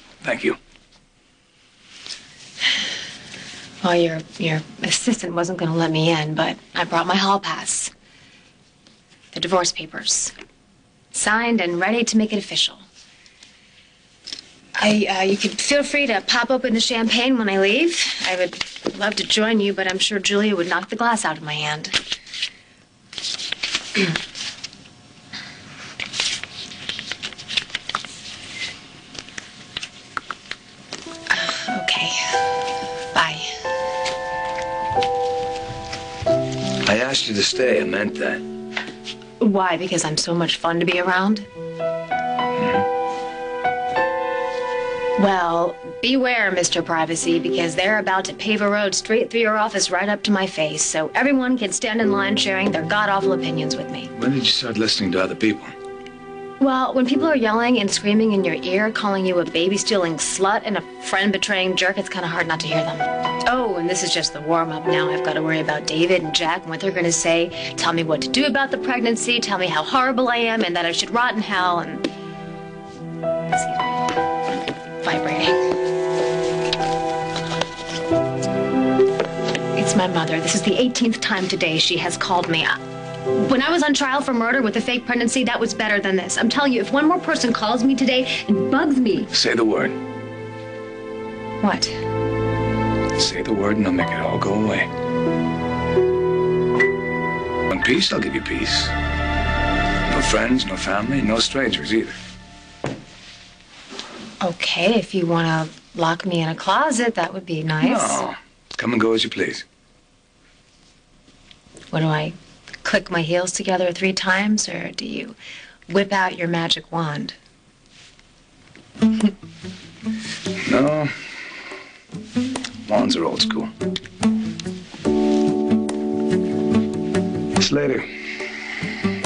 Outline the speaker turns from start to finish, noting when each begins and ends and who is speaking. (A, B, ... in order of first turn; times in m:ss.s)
0:00.2-0:00.6 A
0:03.8-0:07.9 B
0:09.3-0:10.3 B
0:11.1-0:12.8 B
0:14.8-0:22.0 B
0:31.3-0:32.5 B
0:33.1-0:33.6 B
0:36.8-0:38.4 A
0:39.4-0:41.4 B
0:45.2-0:54.1 B
0:54.1-0:55.7 A
0:56.6-1:12.1 B
1:13.5-1:13.9 B
1:15.0-1:15.6 B
1:19.7-1:29.3 B
1:29.3-1:30.0 A
1:31.6-1:32.0 B
1:33.2-1:34.9 A
1:37.7-1:38.9 A
1:40.1-1:42.2 A
1:44.4-1:48.3 B
1:47.8-1:49.6 A
1:51.9-1:55.4 B
1:55.9-1:57.3 B
2:00.6-2:01.3 A
2:02.8-2:03.7 A
2:07.6-2:08.1 A